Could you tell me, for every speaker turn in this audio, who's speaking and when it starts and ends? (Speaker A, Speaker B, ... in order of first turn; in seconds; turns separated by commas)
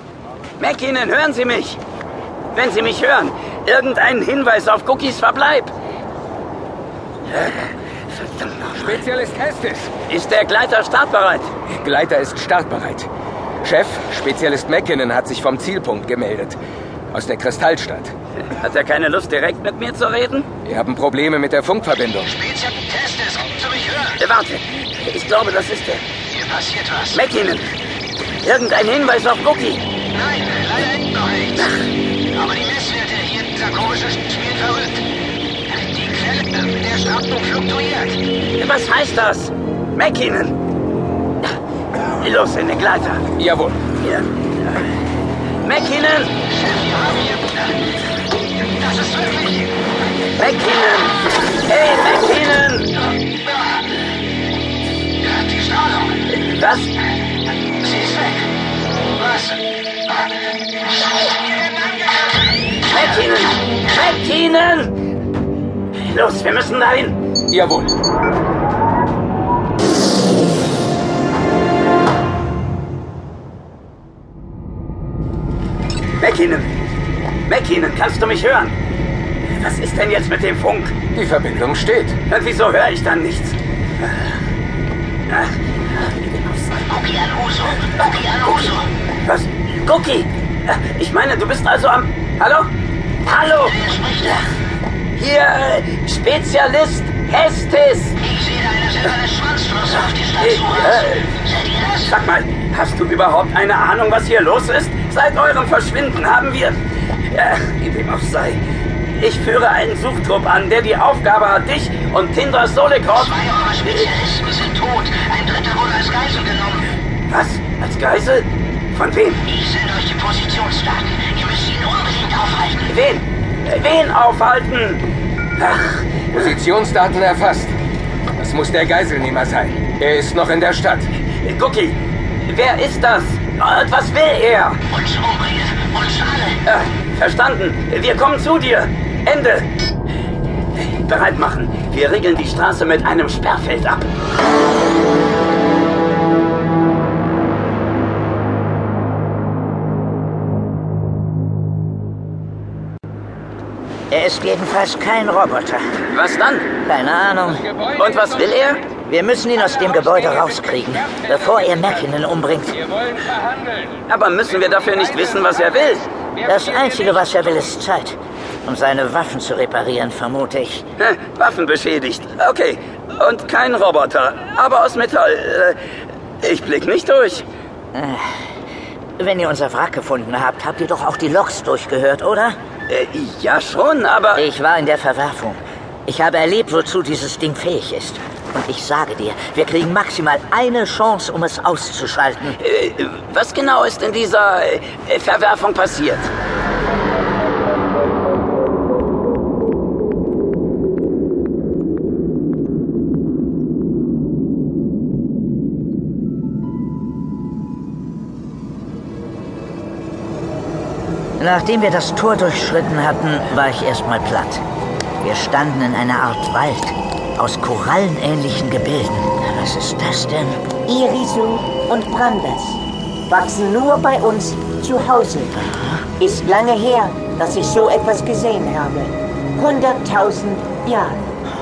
Speaker A: 0.6-1.8, Speaker A: 2.5-5.7, Speaker A: 7.3-9.0, Speaker B: 8.8-9.9, Speaker A: 10.1-11.5, Speaker B: 11.7-13.1, Speaker B: 13.6-16.6, Speaker B: 17.1-18.1, Speaker A: 18.5-20.5, Speaker B: 20.6-22.4, Speaker C: 22.4-24.1, Speaker A: 24.1-26.0, Speaker C: 26.3-27.1, Speaker A: 27.0-27.7, Speaker A: 28.4-29.8, Speaker C: 30.1-31.6, Speaker A: 31.5-31.8, Speaker C: 32.3-35.0, Speaker C: 35.8-38.2, Speaker A: 38.5-40.6, Speaker A: 42.1-43.3, Speaker B: 43.4-43.8, Speaker A: 44.0-44.3, Speaker A: 45.6-46.3, Speaker C: 46.5-47.6, Speaker C: 48.8-49.7, Speaker A: 50.4-53.0, Speaker C: 55.3-56.0, Speaker A: 56.3-56.9, Speaker C: 57.8-58.4, Speaker C: 59.2-59.6, Speaker C: 61.5-62.3, Speaker A: 62.8-65.0, Speaker A: 66.0-67.2, Speaker B: 67.5-67.9, Speaker A: 76.2-76.7, Speaker A: 77.5-78.7, Speaker A: 79.6-81.0, Speaker B: 81.1-82.2, Speaker A: 82.2-83.6, Speaker A: 85.3-87.1, Speaker C: 86.9-88.4, Speaker A: 87.8-92.7, Speaker A: 93.2-94.4, Speaker A: 95.1-98.2, Speaker C: 98.3-100.3, Speaker A: 100.2-108.6, Speaker A: 109.2-114.2, Speaker C: 113.4-116.9, Speaker A: 117.3-119.5, Speaker C: 119.5-122.8, Speaker A: 122.8-126.5, Speaker B: 126.3-127.7, Speaker B: 128.4-131.1, Speaker A: 131.3-134.8, Speaker C: 135.0-136.5, Speaker A: 136.6-139.7, Speaker A: 140.8-144.1, Speaker D: 154.1-155.8, Speaker A: 156.1-156.7, Speaker D: 156.8-157.8, Speaker A: 157.9-158.9, Speaker D: 159.0-163.1, Speaker A: 164.1-166.1, Speaker D: 166.4-170.8, Speaker A: 171.0-175.8, Speaker A: 176.4-177.4, Speaker D: 177.9-178.5, Speaker D: 179.2-182.6, Speaker A: 182.9-184.4, Speaker D: 184.3-192.6, Speaker A: 192.6-196.3, Speaker D: 211.4-214.6, Speaker D: 215.2-220.7, Speaker E: 220.8-225.6, Speaker D: 225.6-226.0, Speaker E: 226.2-231.2